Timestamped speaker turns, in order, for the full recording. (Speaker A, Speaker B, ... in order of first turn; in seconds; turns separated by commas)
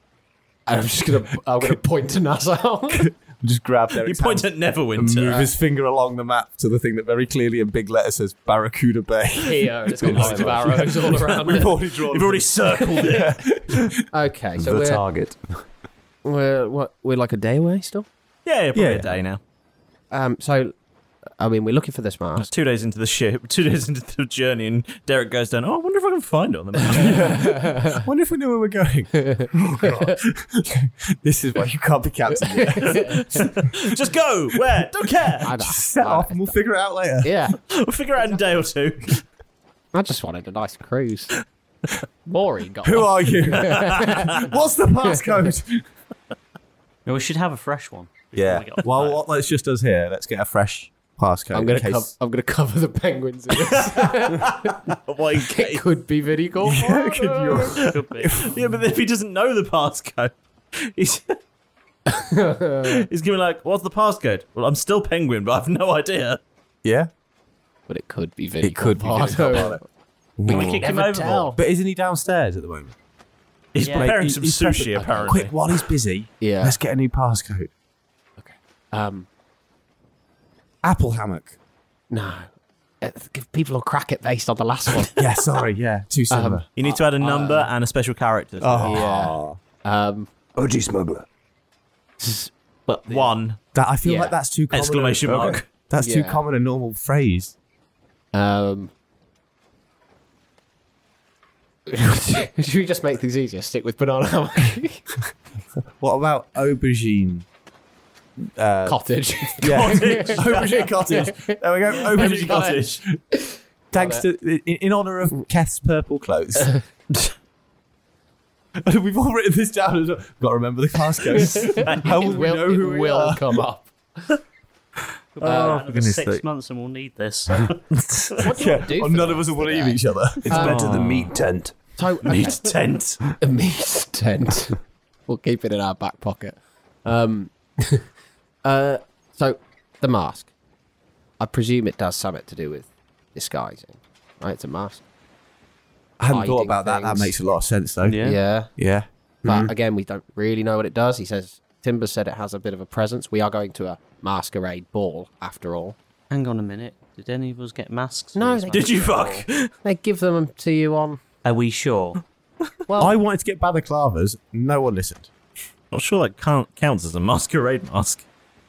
Speaker A: 0.7-3.1, Speaker B: 3.0-14.0, Speaker C: 4.0-5.5, Speaker A: 9.4-11.7, Speaker D: 10.1-10.7, Speaker C: 11.5-13.3, Speaker A: 14.1-15.0, Speaker D: 14.6-15.6, Speaker A: 16.2-18.1, Speaker C: 18.4-19.4, Speaker B: 18.7-19.1, Speaker A: 20.1-20.7, Speaker A: 21.4-22.5, Speaker C: 22.4-27.4, Speaker B: 26.9-33.7, Speaker A: 32.4-33.2, Speaker C: 33.1-35.5, Speaker A: 35.4-36.5, Speaker B: 35.6-37.4, Speaker A: 37.2-37.5, Speaker C: 37.7-39.2, Speaker A: 39.9-41.3, Speaker A: 42.2-44.5, Speaker B: 42.8-45.9, Speaker C: 43.7-44.4, Speaker E: 47.0-49.2, Speaker B: 48.3-52.1, Speaker A: 51.5-54.7, Speaker C: 53.6-55.8, Speaker A: 55.4-57.7, Speaker B: 56.6-58.5, Speaker C: 57.6-61.4, Speaker E: 57.8-58.4, Speaker A: 62.1-63.1, Speaker C: 62.9-66.4, Speaker B: 66.8-67.1, Speaker A: 67.9-69.8, Speaker B: 68.6-69.8, Speaker B: 70.4-70.9, Speaker A: 70.5-71.6, Speaker E: 70.5-71.5, Speaker C: 70.5-71.5, Speaker B: 71.5-72.9, Speaker C: 73.7-75.5, Speaker E: 73.8-74.1, Speaker B: 73.8-77.7, Speaker A: 74.9-75.5, Speaker A: 76.4-76.7, Speaker A: 78.4-79.2, Speaker B: 80.8-81.5, Speaker A: 82.1-82.5, Speaker A: 83.0-85.2, Speaker B: 85.2-86.7, Speaker A: 86.3-87.7, Speaker C: 86.8-89.0, Speaker B: 88.6-89.6, Speaker A: 88.8-90.3, Speaker D: 90.5-91.2, Speaker A: 92.2-93.3, Speaker C: 93.1-93.6, Speaker B: 93.7-97.5, Speaker A: 94.0-94.3, Speaker C: 94.7-95.7, Speaker D: 95.2-95.6, Speaker A: 96.0-96.4, Speaker A: 98.3-98.9, Speaker A: 101.9-105.0, Speaker B: 106.0-107.5, Speaker B: 108.4-109.0, Speaker A: 108.8-114.2, Speaker B: 109.6-113.2, Speaker C: 109.7-110.9, Speaker C: 111.9-113.0, Speaker B: 113.9-116.7, Speaker B: 118.8-123.6, Speaker A: 121.4-123.9, Speaker E: 125.3-127.8, Speaker A: 125.4-125.8, Speaker C: 125.4-126.4, Speaker C: 128.0-128.3, Speaker A: 128.4-130.8, Speaker B: 128.4-130.7, Speaker D: 130.4-131.7, Speaker C: 130.5-131.3, Speaker A: 132.0-132.6, Speaker C: 132.2-133.2, Speaker A: 133.4-134.8, Speaker A: 135.3-138.0, Speaker A: 138.6-140.5, Speaker A: 141.4-145.0, Speaker B: 146.2-148.2, Speaker A: 146.3-147.3, Speaker E: 148.0-148.4, Speaker A: 148.2-148.7, Speaker B: 148.8-149.7, Speaker A: 149.4-155.9, Speaker E: 156.3-159.2, Speaker A: 158.3-161.2, Speaker C: 158.7-159.7, Speaker E: 161.4-162.2, Speaker A: 162.9-163.1, Speaker B: 163.0-165.3, Speaker C: 165.9-168.2